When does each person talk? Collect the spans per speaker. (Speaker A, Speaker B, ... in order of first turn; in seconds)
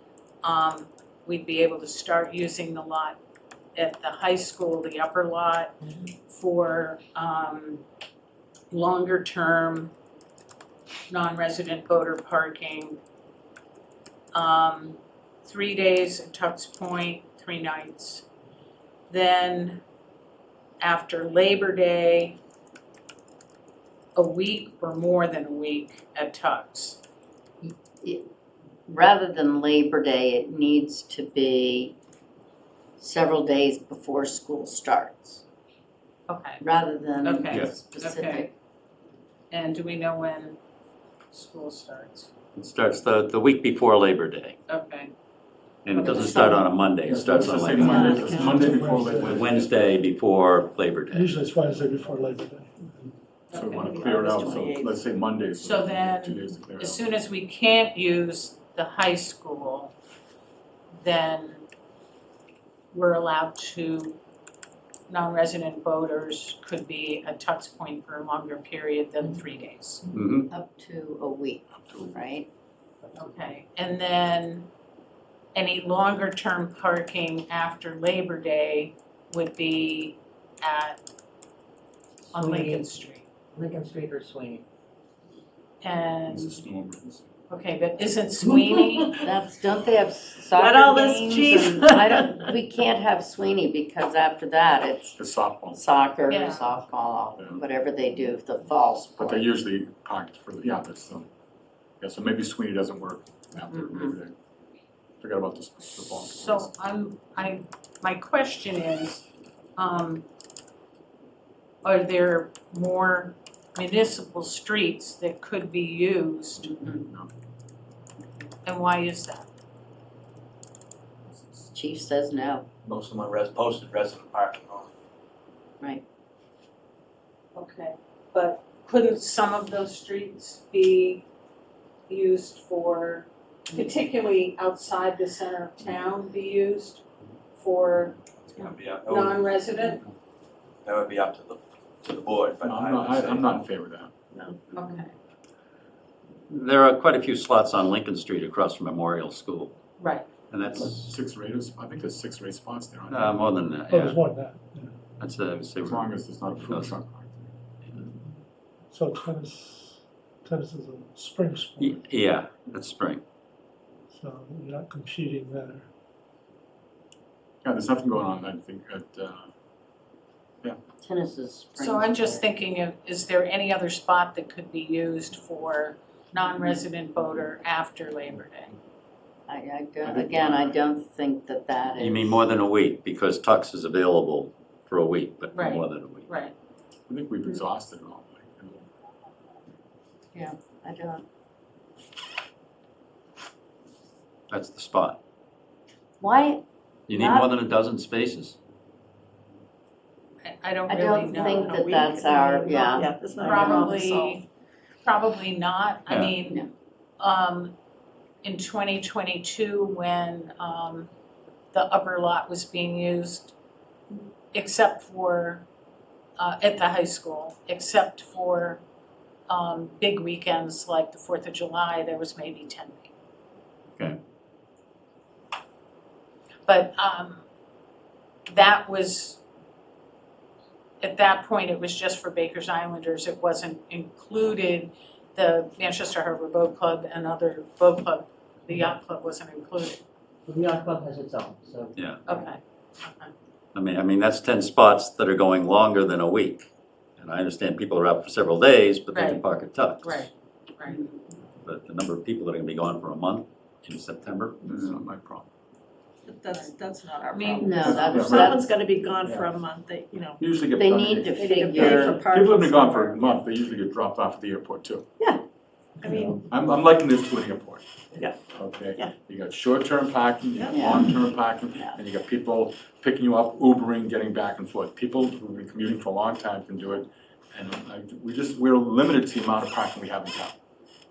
Speaker A: 0.4-3.2, 3.7-5.7, 6.2-7.8, 8.7-9.9, 11.1-13.0, 14.3-18.2, 19.1-19.8, 20.8-22.4, 24.1-27.0, 36.3-36.6, 37.2-38.5, 39.5-40.6, 41.3-42.3, 44.7-45.1, 46.0-46.5, 53.5-53.9, 55.6-59.9, 61.0-61.6, 62.9-64.2, 65.1-70.0, 73.2-74.7, 75.5-81.0, 82.3-83.2, 85.8-86.6, 87.5-89.2, 96.3-96.7, 105.8-109.2, 109.8-110.2, 111.8-116.8, 118.6-119.5, 127.5-131.2, 132.1-137.0, 137.5-140.0, 144.7-145.1, 150.0-150.3, 171.8-178.8, 185.5-186.5, 200.4-201.9, 202.9-204.4, 205.0-206.7, 207.2-207.7, 208.4-211.1, 211.7-213.5, 214.5-215.7, 216.4-218.8, 219.5-223.1, 226.7-227.4, 228.5-229.4, 231.0-240.0, 242.3-243.3, 249.1-249.4, 250.0-251.1, 257.3-258.1
Speaker B: 27.6-28.2, 28.9-31.9, 33.0-35.4, 36.6-38.5, 46.0-46.7, 70.5-72.5, 89.2-95.2, 95.7-99.5, 103.7-104.2, 116.8-117.0, 121.7-122.7, 171.0-172.4, 179.5-182.4, 190.3-191.2, 196.2-197.5, 200.9-203.9, 257.6-258.6, 260.7-262.2, 270.7-271.1
Speaker C: 42.5-44.6, 45.8-48.5, 49.2-51.3, 70.1-70.5, 146.5-149.7, 150.5-151.2, 153.1-154.2, 155.2-157.0, 161.8-163.2, 182.0-186.3, 194.5-195.2, 197.1-198.6, 206.1-206.3, 241.9-242.2, 243.7-250.3, 251.6-254.9
Speaker D: 47.1-49.8, 53.5-57.0, 71.8-72.2, 86.3-87.3, 95.2-95.8, 99.1-101.3, 102.0-104.3, 105.2-106.7, 142.6-144.1, 150.9-153.4, 155.8-157.5, 167.6-169.5, 180.0-180.8, 187.1-188.8, 254.6-255.5, 257.8-258.6, 260.4-265.0, 266.3-267.8, 268.5-280.5
Speaker E: 47.6-49.5, 51.1-53.1, 153.9-154.9, 158.9-162.0, 164.1-165.9
Speaker F: 47.8-48.6, 53.5-55.0, 90.5-92.5, 201.2-204.4, 256.2-260.4, 261.3-263.3, 266.0-266.4, 270.5-271.0
Speaker G: 73.0-73.3, 82.2-82.9, 83.5-84.6, 240.4-241.9
Speaker H: 122.8-124.9, 138.4-139.4, 140.8-143.7